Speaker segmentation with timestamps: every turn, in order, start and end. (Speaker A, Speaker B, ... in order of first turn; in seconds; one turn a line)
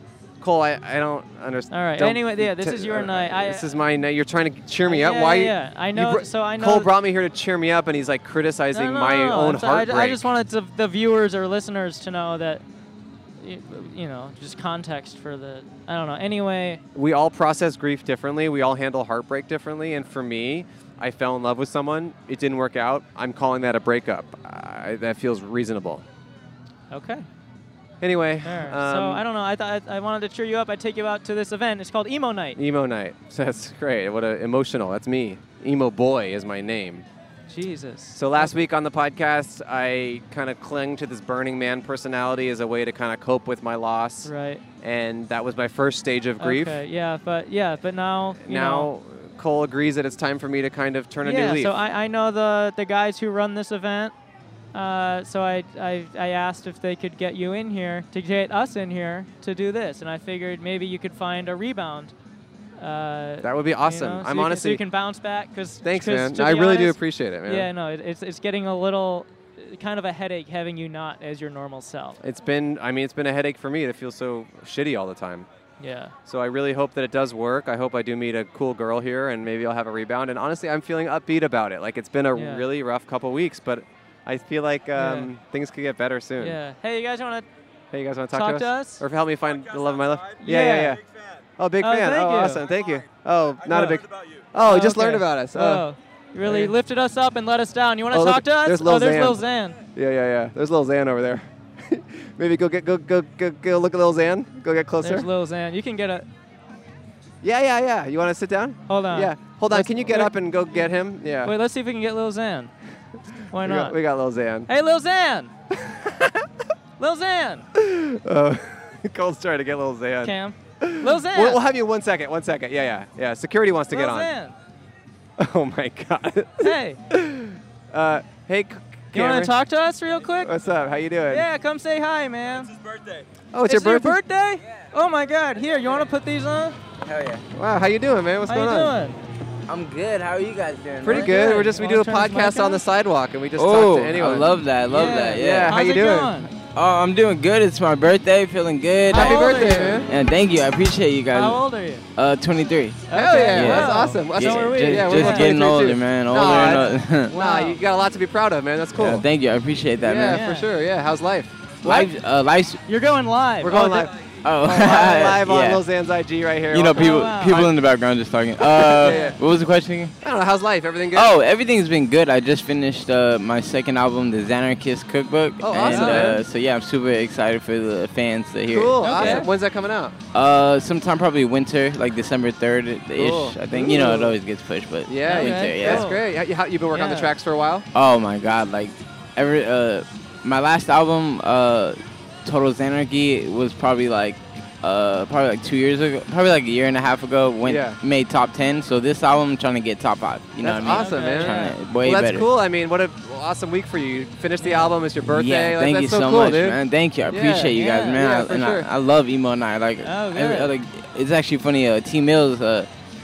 Speaker A: 0.4-10.2
Speaker B: 1.7-3.7
Speaker B: 4.8-6.9
Speaker B: 8.7-12.6
Speaker B: 13.4-16.8
Speaker A: 16.9-26.0
Speaker B: 26.9-27.2
Speaker A: 28.0-29.2
Speaker B: 28.4-32.6
Speaker A: 32.5-37.0
Speaker B: 37.5-38.7
Speaker A: 38.1-44.3
Speaker B: 44.2-44.6
Speaker A: 44.8-46.8
Speaker B: 46.4-48.9
Speaker A: 48.4-51.7
Speaker B: 51.2-54.1
Speaker B: 54.7-62.1
Speaker B: 62.8-72.2
Speaker A: 63.4-64.8
Speaker A: 65.8-67.7
Speaker A: 72.2-75.5
Speaker B: 75.8-76.1
Speaker A: 76.2-86.6
Speaker B: 82.3-82.7
Speaker B: 84.9-85.3
Speaker B: 86.4-87.5
Speaker A: 87.9-91.0
Speaker B: 88.3-89.0
Speaker B: 90.4-91.0
Speaker A: 91.6-95.8
Speaker B: 91.8-92.6
Speaker B: 93.6-94.0
Speaker B: 94.6-99.8
Speaker A: 96.4-96.7
Speaker A: 98.1-99.4
Speaker A: 99.9-105.3
Speaker B: 105.0-106.3
Speaker A: 107.4-111.5
Speaker B: 108.9-112.7
Speaker B: 113.5-114.0
Speaker A: 113.5-114.7
Speaker B: 114.7-115.5
Speaker A: 115.8-116.5
Speaker B: 117.0-117.7
Speaker A: 117.7-124.3
Speaker B: 120.2-121.6
Speaker B: 123.9-124.5
Speaker A: 125.4-129.5
Speaker B: 126.6-127.0
Speaker B: 129.1-130.5
Speaker A: 130.4-131.4
Speaker B: 131.3-132.7
Speaker A: 133.5-134.2
Speaker B: 133.7-136.8
Speaker C: 137.0-137.4
Speaker A: 137.5-138.9
Speaker B: 138.5-139.2
Speaker C: 139.7-141.3
Speaker A: 141.0-146.3
Speaker B: 141.1-142.8
Speaker C: 143.6-145.8
Speaker B: 144.9-146.5
Speaker C: 146.7-151.6
Speaker B: 149.1-150.0
Speaker A: 149.1-150.1
Speaker B: 151.3-152.0
Speaker C: 152.2-157.3
Speaker B: 153.1-155.5
Speaker A: 153.1-159.2
Speaker B: 156.3-157.8
Speaker C: 158.9-160.4
Speaker A: 160.0-162.1
Speaker B: 160.2-160.7
Speaker C: 161.8-162.8
Speaker B: 162.9-164.1
Speaker A: 163.6-167.6
Speaker C: 164.4-165.8
Speaker C: 166.7-170.1
Speaker B: 166.9-167.7
Speaker A: 168.7-169.4
Speaker B: 169.0-169.4
Speaker A: 170.2-171.3
Speaker C: 171.1-179.5
Speaker A: 175.6-176.4
Speaker B: 175.8-176.3
Speaker A: 178.7-180.2
Speaker B: 179.0-179.5
Speaker C: 180.3-186.1
Speaker A: 183.1-184.4
Speaker A: 185.1-187.9
Speaker B: 185.2-186.2
Speaker B: 186.9-187.3
Speaker C: 187.9-202.5
Speaker A: 197.6-198.0
Speaker A: 200.6-208.9
Speaker B: 200.8-201.7
Speaker B: 204.6-204.9
Speaker C: 205.2-212.9
Speaker B: 207.7-208.2
Speaker B: 210.0-210.7